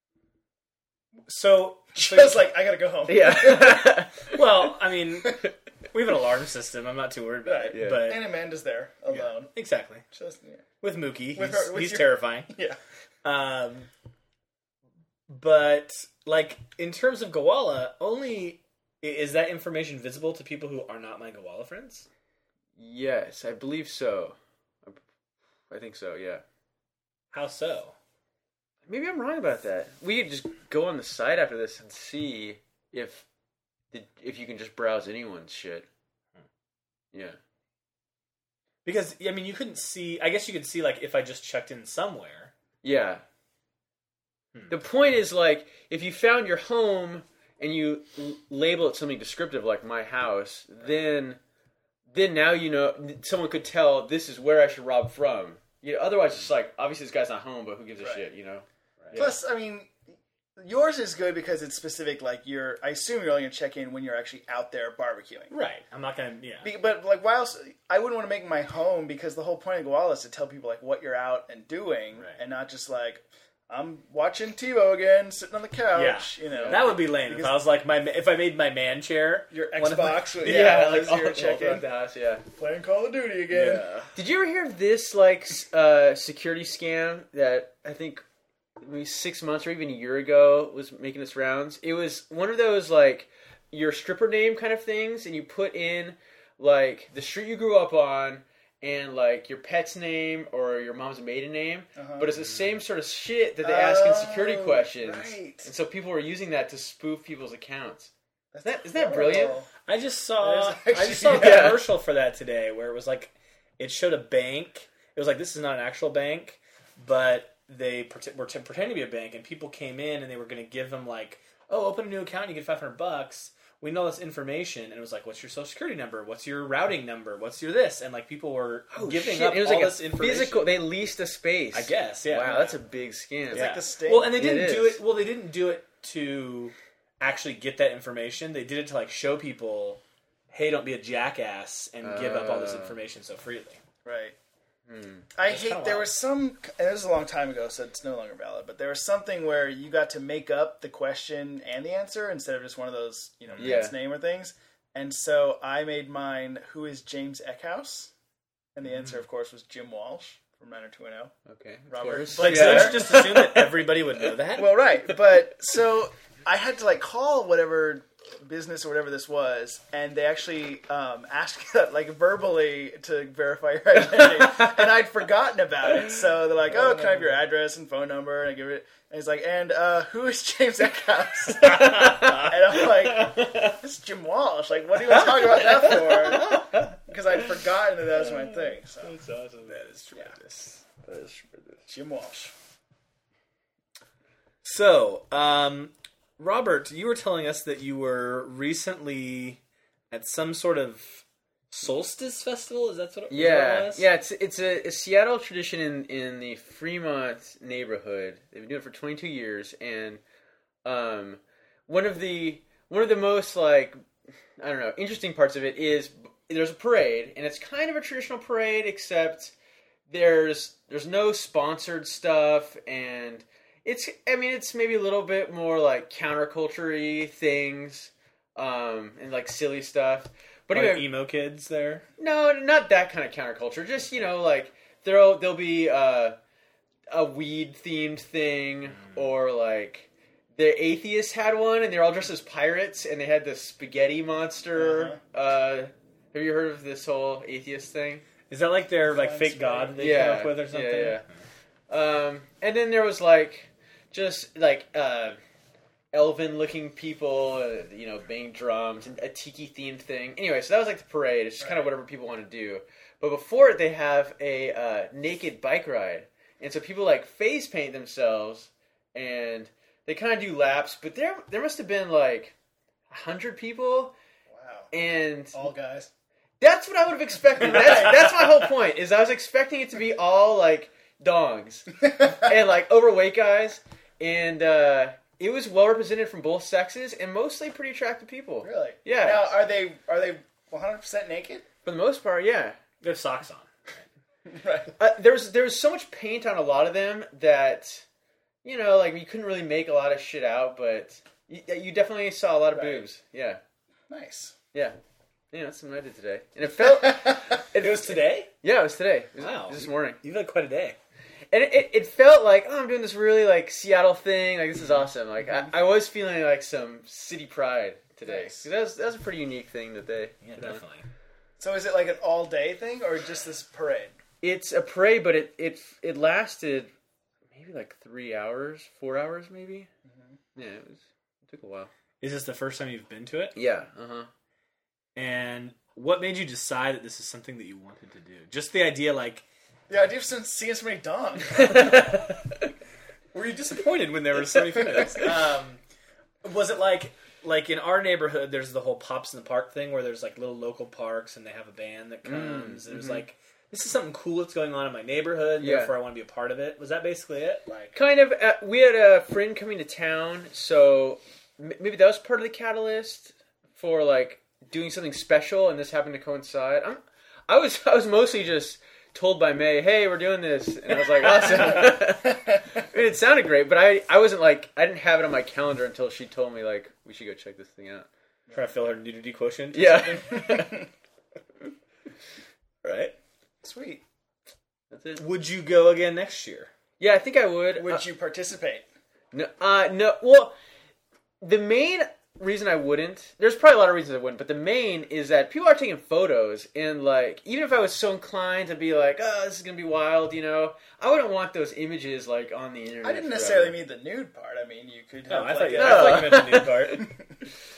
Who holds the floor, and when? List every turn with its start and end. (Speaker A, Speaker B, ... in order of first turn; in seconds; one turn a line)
Speaker A: 1.3-2.5
Speaker B: 1.9-3.9
Speaker C: 3.1-4.4
Speaker A: 4.2-8.2
Speaker B: 7.4-9.5
Speaker C: 7.7-8.1
Speaker A: 9.1-10.0
Speaker B: 10.1-10.6
Speaker A: 10.8-12.5
Speaker B: 11.3-12.8
Speaker A: 13.2-13.9
Speaker A: 15.3-22.1
Speaker C: 22.8-25.0
Speaker C: 25.7-26.4
Speaker A: 27.3-27.9
Speaker C: 28.9-33.2
Speaker C: 33.9-35.9
Speaker A: 38.8-42.5
Speaker C: 42.8-43.2
Speaker C: 44.7-51.4
Speaker C: 52.1-59.3
Speaker A: 59.0-59.3
Speaker B: 59.1-60.0
Speaker B: 60.6-65.5
Speaker A: 65.5-66.7
Speaker B: 66.6-77.6
Speaker A: 75.9-80.8
Speaker C: 76.5-76.8
Speaker B: 79.5-81.8
Speaker C: 80.4-82.4
Speaker B: 82.5-83.8
Speaker A: 83.5-84.1
Speaker C: 83.6-88.2
Speaker C: 88.8-108.1
Speaker B: 102.0-102.3
Speaker B: 103.6-105.7
Speaker B: 108.5-109.7
Speaker C: 108.6-109.6
Speaker A: 109.3-130.7
Speaker B: 110.4-111.8
Speaker C: 111.3-111.8
Speaker C: 128.9-133.8
Speaker A: 131.7-132.8
Speaker B: 133.5-134.3
Speaker A: 133.5-143.8
Speaker C: 134.3-135.0
Speaker C: 142.0-143.0
Speaker B: 144.0-144.3
Speaker C: 144.9-145.3
Speaker B: 145.3-158.1
Speaker A: 145.4-146.1
Speaker A: 153.5-153.8
Speaker C: 153.6-153.9
Speaker B: 158.8-161.3
Speaker C: 161.5-163.7
Speaker B: 161.9-163.6
Speaker A: 162.4-164.9
Speaker B: 164.6-189.2
Speaker C: 181.5-183.8
Speaker A: 181.7-182.3
Speaker C: 185.2-186.6
Speaker C: 188.2-189.8
Speaker A: 189.7-190.8
Speaker C: 190.8-191.9
Speaker B: 191.9-192.5
Speaker A: 194.6-204.1
Speaker C: 203.3-210.2
Speaker C: 210.8-214.0
Speaker C: 214.6-219.5
Speaker C: 220.1-231.0
Speaker A: 230.7-232.0
Speaker C: 232.2-236.4
Speaker C: 237.1-248.2
Speaker B: 244.8-245.2
Speaker A: 248.5-251.2
Speaker B: 249.1-250.0
Speaker C: 250.0-251.2
Speaker C: 251.9-255.4
Speaker C: 256.1-272.5
Speaker B: 261.6-261.9
Speaker C: 273.1-274.1
Speaker B: 274.5-274.9
Speaker C: 274.9-275.7
Speaker B: 275.5-276.1
Speaker C: 276.6-289.5
Speaker B: 277.6-278.5
Speaker B: 288.6-291.6
Speaker C: 291.8-292.8
Speaker A: 293.0-294.0
Speaker B: 294.4-294.9
Speaker C: 295.0-298.0
Speaker C: 298.6-303.6
Speaker B: 302.7-303.0
Speaker B: 304.1-304.5
Speaker C: 305.5-310.2
Speaker B: 306.9-307.6
Speaker A: 307.7-308.5
Speaker A: 309.4-311.0
Speaker C: 311.5-320.8
Speaker B: 318.2-318.6
Speaker A: 320.4-321.1
Speaker B: 321.6-324.1
Speaker C: 324.4-326.9
Speaker C: 327.5-329.9
Speaker B: 330.1-330.3
Speaker C: 330.5-331.9
Speaker A: 332.2-333.6
Speaker C: 333.5-334.3
Speaker A: 335.1-339.4
Speaker B: 339.9-342.0
Speaker C: 341.6-342.7
Speaker A: 343.3-345.8
Speaker A: 346.4-357.9
Speaker C: 352.2-353.2
Speaker C: 355.6-355.9
Speaker C: 357.9-378.1
Speaker B: 371.4-372.6
Speaker A: 378.5-380.6
Speaker C: 379.7-380.9
Speaker B: 380.4-380.7
Speaker A: 382.9-383.1
Speaker B: 383.6-384.0
Speaker C: 384.9-385.2
Speaker A: 385.2-386.7
Speaker C: 387.0-388.0
Speaker B: 387.8-388.9
Speaker C: 389.3-390.5
Speaker C: 391.4-403.8
Speaker B: 403.0-407.4
Speaker A: 405.3-407.1
Speaker C: 405.8-407.0